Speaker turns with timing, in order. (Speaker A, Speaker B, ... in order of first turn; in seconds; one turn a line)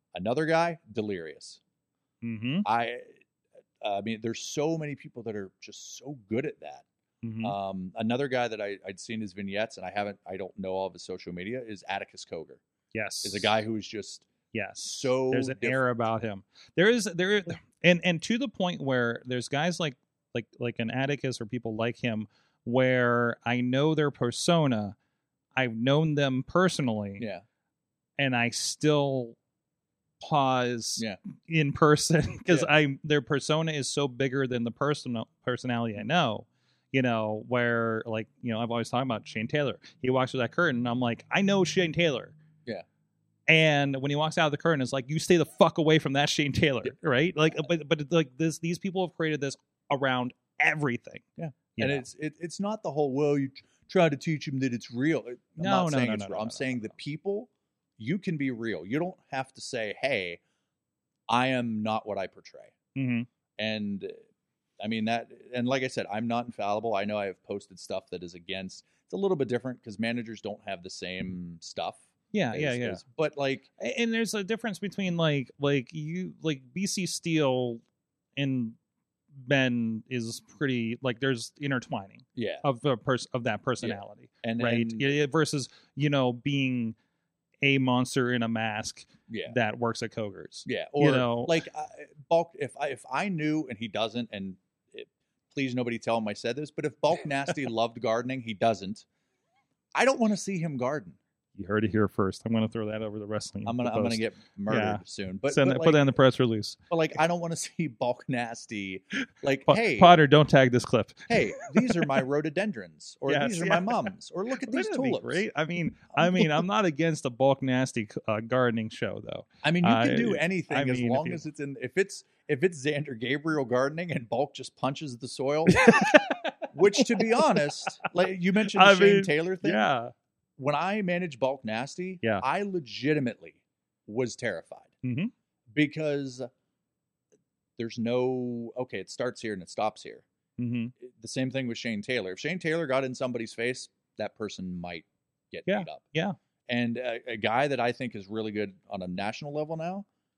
Speaker A: 0.1-1.6
Speaker B: 2.2-2.7
Speaker A: 2.6-3.2
Speaker A: 3.8-6.9
Speaker B: 7.2-7.6
Speaker A: 7.4-12.6
Speaker B: 12.9-13.6
Speaker A: 13.2-15.9
Speaker B: 14.5-25.0
Speaker B: 25.6-27.3
Speaker A: 27.2-27.4
Speaker B: 28.2-29.4
Speaker B: 30.2-42.4
Speaker B: 43.5-51.2
Speaker A: 51.4-60.4
Speaker B: 51.8-52.1
Speaker B: 55.6-56.9
Speaker A: 61.3-62.8
Speaker B: 63.0-63.3
Speaker A: 63.6-64.2
Speaker A: 64.8-73.7
Speaker B: 72.3-73.0
Speaker B: 73.8-77.8
Speaker B: 78.4-78.8
Speaker B: 79.4-87.0
Speaker A: 82.3-82.7
Speaker A: 83.8-85.2
Speaker B: 87.6-91.6
Speaker A: 89.3-89.6
Speaker A: 90.7-99.1
Speaker A: 99.9-101.2
Speaker B: 101.6-106.8
Speaker A: 103.7-106.0
Speaker A: 106.9-110.2
Speaker B: 109.7-112.2
Speaker A: 111.3-115.5
Speaker B: 113.3-114.1
Speaker B: 114.6-121.4
Speaker A: 116.1-116.6
Speaker A: 119.6-129.8
Speaker B: 125.7-127.6
Speaker B: 128.7-130.1
Speaker A: 130.6-134.9
Speaker B: 135.0-135.3
Speaker A: 135.7-136.5
Speaker A: 137.8-140.2
Speaker B: 140.6-140.9
Speaker A: 141.0-146.0
Speaker B: 145.7-146.4
Speaker A: 146.7-150.1